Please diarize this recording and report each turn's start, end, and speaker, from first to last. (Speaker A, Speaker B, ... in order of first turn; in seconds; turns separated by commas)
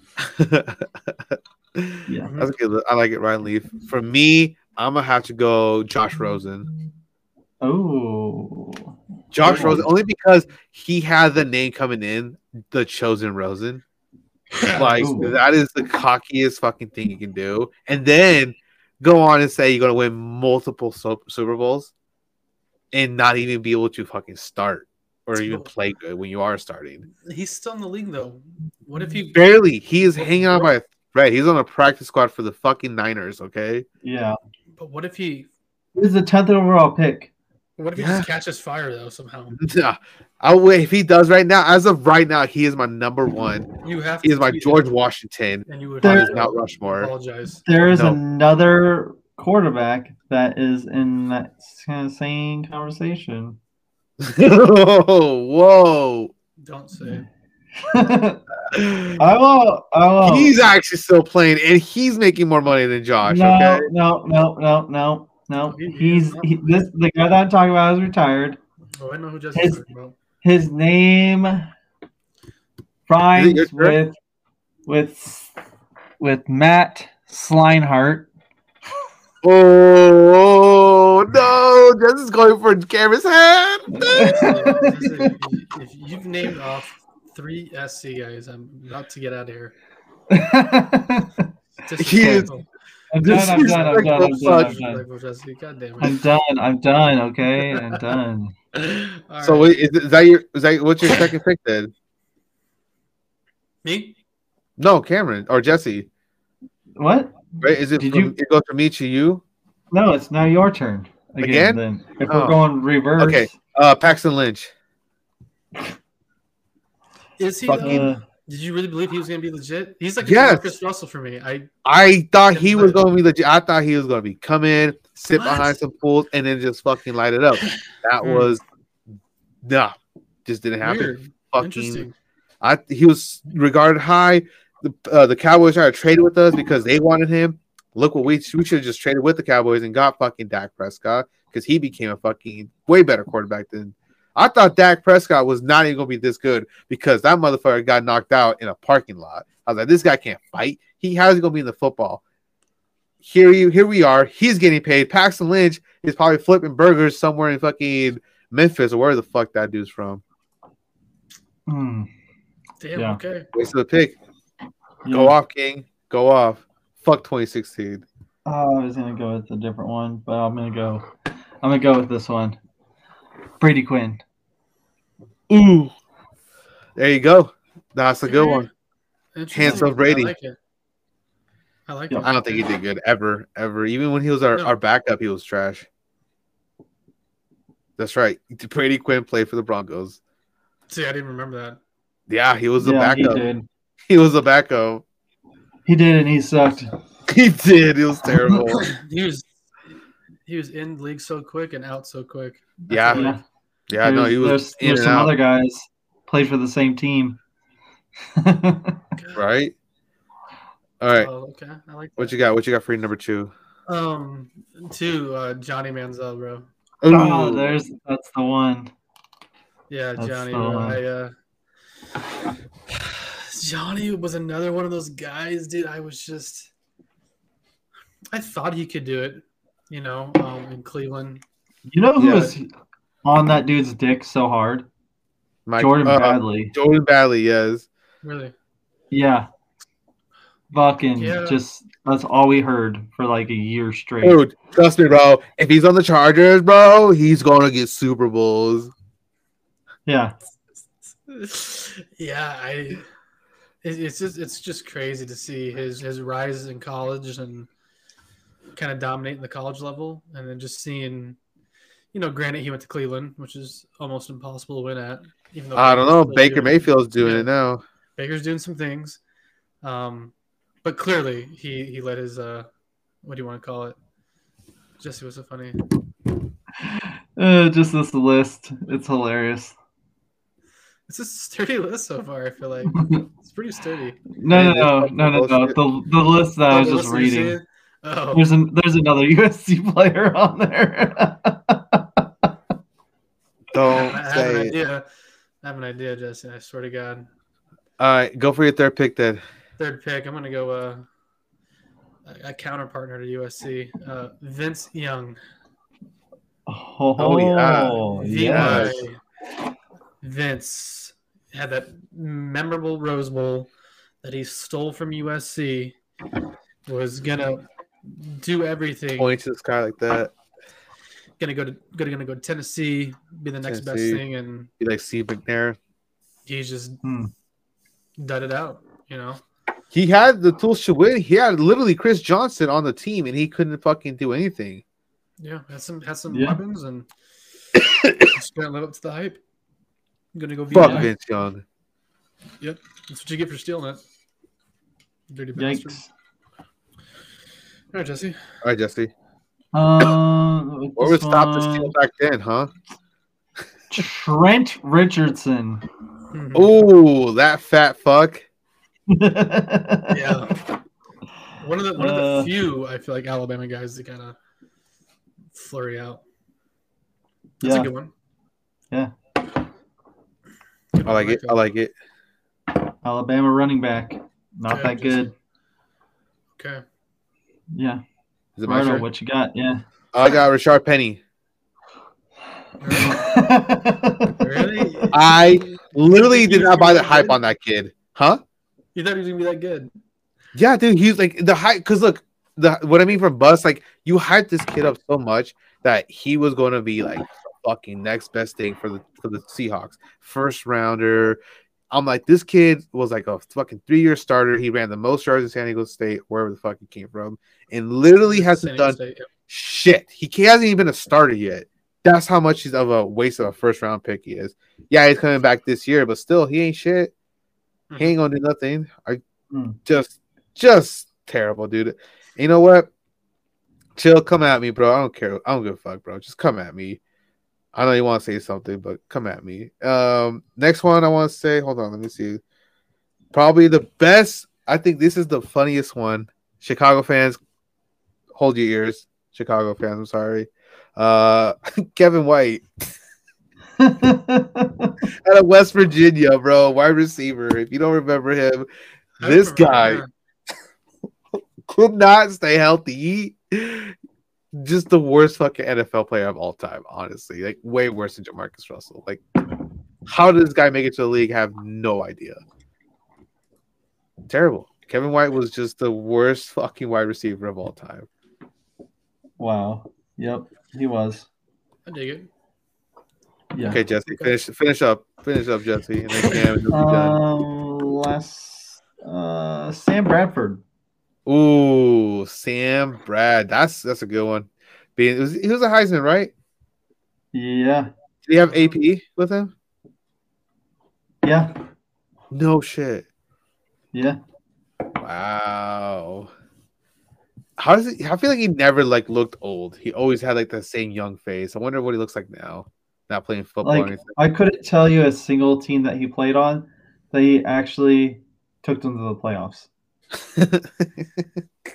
Speaker A: 0.2-6.7, Speaker B: 2.1-2.3, Speaker B: 7.6-9.9, Speaker A: 9.3-13.8, Speaker C: 14.5-15.1, Speaker A: 14.7-21.9, Speaker B: 14.9-15.4, Speaker A: 22.9-27.1, Speaker C: 25.4-25.7, Speaker C: 27.2-30.7, Speaker A: 29.3-33.9, Speaker B: 34.0-34.4, Speaker C: 34.8-35.5, Speaker B: 36.0-37.3, Speaker C: 37.8-39.6, Speaker A: 38.0-38.3, Speaker A: 39.6-43.7, Speaker C: 43.8-44.9, Speaker A: 44.2-47.1, Speaker C: 45.7-47.6, Speaker B: 46.0-46.5, Speaker B: 47.7-53.6, Speaker A: 47.9-48.2, Speaker A: 54.2-56.3, Speaker C: 56.6-57.3, Speaker B: 57.8-58.4, Speaker A: 58.7-59.2, Speaker B: 59.2-60.6, Speaker A: 60.2-63.9, Speaker B: 63.2-68.6, Speaker C: 65.7-66.7, Speaker C: 69.0-70.2, Speaker B: 69.5-69.8, Speaker B: 70.4-71.7, Speaker B: 73.1-74.2, Speaker A: 73.4-74.0, Speaker B: 74.9-75.5, Speaker B: 76.2-78.3, Speaker A: 79.4-84.8, Speaker B: 83.9-84.9, Speaker C: 84.2-89.7, Speaker B: 90.3-91.5, Speaker C: 91.8-92.7, Speaker A: 92.0-92.5, Speaker B: 92.2-92.5, Speaker B: 93.1-95.0, Speaker A: 93.2-94.8, Speaker C: 93.2-96.2, Speaker B: 96.0-98.5, Speaker C: 98.8-99.8, Speaker A: 99.4-101.9, Speaker C: 103.8-104.2, Speaker A: 104.8-106.1, Speaker B: 107.0-108.3, Speaker A: 107.6-109.4, Speaker B: 109.9-113.5, Speaker A: 111.4-112.6, Speaker A: 113.2-114.7, Speaker C: 117.4-121.7, Speaker A: 117.7-118.1, Speaker B: 117.8-118.2, Speaker A: 120.2-120.8, Speaker A: 121.8-128.6, Speaker C: 122.5-123.0, Speaker C: 125.3-125.8, Speaker C: 127.6-128.5, Speaker A: 129.6-132.1, Speaker C: 130.8-132.1, Speaker A: 132.6-152.2, Speaker A: 153.2-160.2, Speaker B: 161.7-162.1, Speaker C: 162.8-163.5, Speaker A: 163.5-164.2, Speaker B: 165.0-165.4, Speaker A: 165.1-168.0, Speaker B: 168.4-171.1, Speaker B: 171.6-172.6, Speaker B: 173.6-174.2, Speaker A: 175.5-175.9, Speaker A: 177.0-178.7, Speaker C: 178.2-178.7, Speaker C: 179.3-180.6, Speaker A: 179.5-180.3, Speaker C: 181.9-182.7, Speaker A: 182.2-185.9, Speaker A: 188.0-190.2, Speaker C: 190.9-191.8, Speaker A: 192.3-193.4, Speaker B: 192.8-193.7, Speaker A: 194.1-195.0, Speaker B: 195.9-196.9, Speaker A: 197.3-198.9, Speaker C: 198.7-199.4, Speaker C: 200.5-203.4, Speaker A: 202.9-203.3, Speaker B: 203.1-203.4, Speaker A: 203.9-205.3, Speaker B: 204.0-207.4, Speaker B: 208.4-209.0, Speaker C: 209.2-209.4, Speaker A: 209.4-209.7, Speaker A: 211.0-211.3, Speaker C: 211.1-212.4, Speaker A: 212.2-213.5, Speaker C: 213.9-216.7, Speaker A: 217.0-217.7, Speaker B: 217.1-218.9, Speaker C: 219.9-221.3, Speaker B: 220.2-221.0, Speaker C: 222.9-226.7, Speaker C: 228.3-231.4, Speaker B: 231.9-232.7, Speaker A: 232.2-232.5, Speaker B: 233.2-234.9, Speaker A: 235.7-237.9, Speaker B: 235.8-236.8, Speaker C: 238.2-238.5, Speaker B: 239.1-239.5, Speaker B: 240.7-244.4, Speaker C: 241.2-241.6, Speaker A: 244.2-248.9, Speaker B: 250.1-250.3, Speaker C: 251.3-253.0, Speaker C: 253.8-257.7, Speaker C: 258.8-261.4, Speaker C: 262.1-267.5, Speaker A: 265.8-267.8, Speaker C: 268.2-269.2, Speaker C: 269.8-270.3, Speaker C: 270.8-272.7, Speaker C: 273.2-274.0, Speaker C: 275.0-275.8, Speaker B: 276.9-279.8, Speaker C: 281.1-284.2, Speaker B: 284.4-287.6, Speaker A: 284.5-285.8, Speaker C: 286.7-288.5, Speaker B: 288.3-292.2, Speaker A: 293.7-294.7, Speaker C: 293.9-295.0, Speaker C: 295.6-297.3, Speaker A: 298.0-299.4, Speaker C: 299.8-301.1, Speaker C: 302.3-305.4, Speaker B: 306.7-308.9, Speaker A: 307.2-309.0, Speaker C: 308.1-309.2, Speaker C: 310.2-313.7, Speaker C: 314.2-316.0, Speaker C: 316.9-319.3, Speaker A: 319.2-320.3, Speaker C: 321.4-324.7, Speaker A: 323.7-324.2, Speaker A: 324.8-325.8, Speaker C: 326.5-327.0, Speaker B: 327.0-327.3, Speaker C: 328.2-329.4, Speaker A: 329.9-334.8, Speaker C: 335.4-337.1, Speaker B: 336.3-336.6, Speaker A: 337.8-338.3, Speaker C: 338.3-339.4, Speaker C: 340.3-341.1, Speaker A: 340.7-341.6, Speaker B: 340.8-341.1, Speaker C: 342.6-344.0, Speaker C: 345.3-346.0, Speaker B: 345.6-346.1, Speaker C: 347.9-348.4, Speaker A: 348.6-349.1, Speaker B: 349.7-351.9, Speaker A: 351.0-352.7, Speaker B: 353.9-355.8, Speaker C: 356.3-356.7, Speaker A: 356.6-358.4, Speaker B: 359.1-360.4, Speaker C: 360.1-360.6, Speaker C: 361.6-364.4, Speaker B: 362.0-362.5, Speaker C: 365.5-366.2, Speaker B: 367.6-367.9, Speaker C: 367.6-368.1, Speaker C: 370.9-371.6, Speaker A: 371.0-371.9, Speaker B: 373.0-375.3, Speaker C: 374.7-375.3, Speaker C: 376.6-376.8, Speaker B: 377.7-378.0, Speaker A: 378.6-379.1, Speaker B: 378.6-379.8, Speaker A: 380.1-381.2, Speaker C: 382.8-383.4, Speaker B: 382.9-385.0, Speaker C: 384.4-387.4, Speaker A: 385.1-388.4, Speaker C: 388.9-389.9, Speaker A: 390.6-401.4, Speaker A: 401.9-409.0, Speaker C: 408.3-409.3, Speaker A: 409.5-417.1, Speaker C: 417.9-418.2, Speaker A: 418.0-419.2, Speaker B: 419.5-419.8, Speaker A: 419.9-422.9, Speaker A: 424.0-427.0, Speaker A: 427.8-432.4, Speaker A: 433.3-437.4, Speaker A: 438.4-442.7, Speaker B: 443.8-445.0, Speaker A: 445.2-448.7, Speaker C: 449.2-450.1, Speaker A: 449.2-450.0, Speaker A: 451.7-453.9, Speaker A: 454.5-459.2, Speaker A: 460.1-462.4, Speaker A: 464.3-468.1, Speaker B: 469.4-471.3, Speaker C: 471.9-472.3, Speaker B: 473.5-473.8, Speaker C: 473.6-474.4, Speaker A: 473.7-477.2, Speaker B: 476.7-480.6, Speaker A: 481.3-486.3, Speaker B: 487.3-487.9, Speaker A: 488.3-489.5, Speaker C: 488.4-488.7, Speaker B: 491.2-491.6, Speaker A: 492.3-493.1, Speaker B: 493.9-494.2, Speaker A: 495.0-496.3, Speaker A: 497.6-504.1, Speaker B: 503.6-509.7, Speaker A: 510.2-511.3